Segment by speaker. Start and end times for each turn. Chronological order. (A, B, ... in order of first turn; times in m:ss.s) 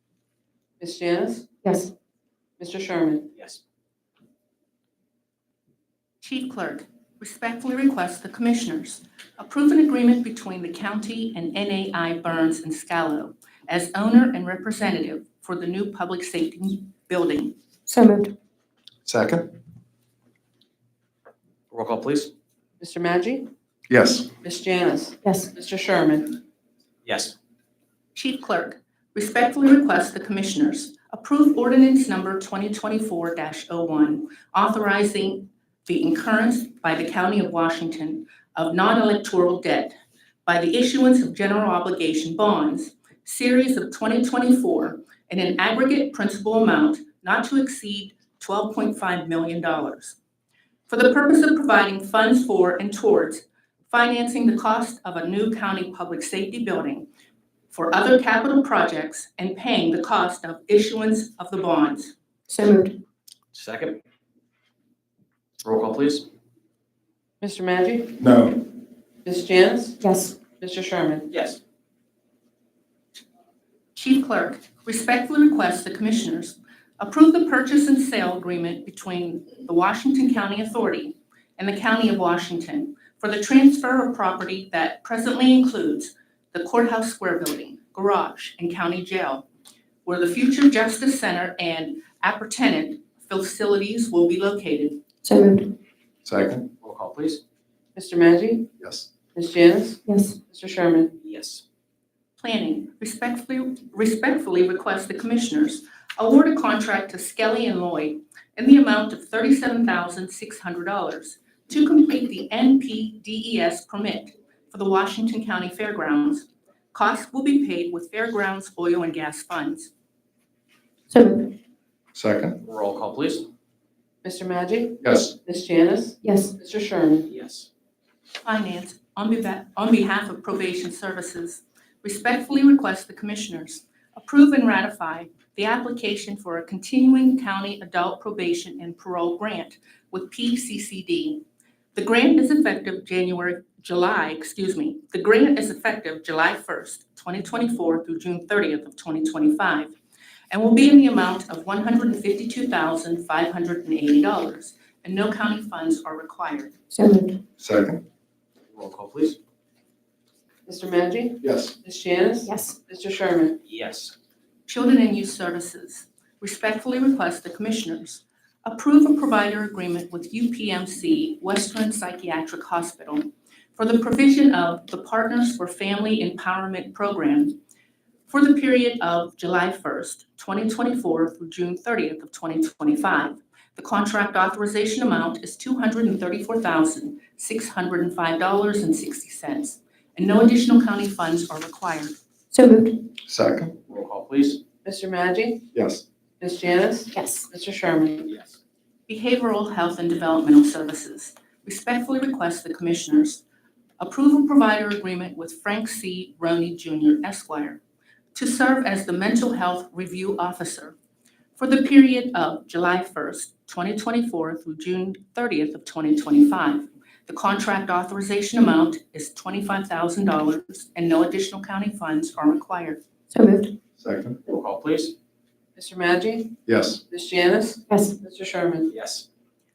0:00.8-0:01.5 A
0:01.6-0:01.9 B
0:02.6-0:03.3 A
0:06.2-0:17.6 C
0:17.9-0:18.3 B
0:19.0-0:19.5 D
0:21.7-0:22.3 E
0:22.8-0:23.5 A
0:23.9-0:24.3 D
0:24.4-0:26.4 A
0:25.2-0:25.5 B
0:27.0-0:27.3 E
0:28.1-0:39.9 C
0:40.4-0:50.2 C
0:50.9-0:57.1 C
0:57.7-1:02.1 C
1:02.5-1:03.0 B
1:03.5-1:04.0 E
1:05.6-1:06.3 E
1:07.4-1:08.2 A
1:08.2-1:08.7 D
1:09.2-1:11.3 A
1:10.0-1:10.4 B
1:11.3-1:11.6 E
1:13.9-1:29.5 C
1:30.0-1:35.0 C
1:35.2-1:35.7 B
1:36.2-1:36.7 D
1:36.8-1:37.4 E
1:37.9-1:38.7 A
1:38.8-1:39.1 D
1:39.3-1:41.1 A
1:40.0-1:40.4 B
1:41.2-1:41.6 E
1:42.4-1:59.9 C
2:01.1-2:01.5 B
2:02.1-2:02.6 D
2:02.6-2:03.4 E
2:04.2-2:07.3 A
2:05.0-2:05.3 D
2:06.2-2:06.5 B
2:07.3-2:07.7 E
2:08.4-2:21.4 C
2:21.9-2:29.9 C
2:30.5-2:36.7 C
2:36.9-2:37.4 B
2:37.6-2:38.0 D
2:38.7-2:39.4 E
2:40.6-2:43.6 A
2:41.4-2:41.7 D
2:42.4-2:42.8 B
2:43.6-2:44.1 E
2:44.7-2:57.6 C
2:58.3-3:12.2 C
3:12.5-3:13.0 B
3:13.2-3:13.8 D
3:13.9-3:14.6 E
3:14.8-3:15.7 A
3:15.7-3:16.0 D
3:16.4-3:18.3 A
3:17.1-3:17.5 B
3:18.3-3:18.6 E
3:19.1-3:23.4 C
3:24.0-3:27.8 C
3:28.3-3:30.9 C
3:31.6-3:43.0 C
3:43.3-3:43.7 B
3:44.0-3:44.4 D
3:44.4-3:45.1 E
3:45.8-3:48.9 A
3:46.6-3:47.0 D
3:47.9-3:48.2 B
3:48.9-3:49.2 E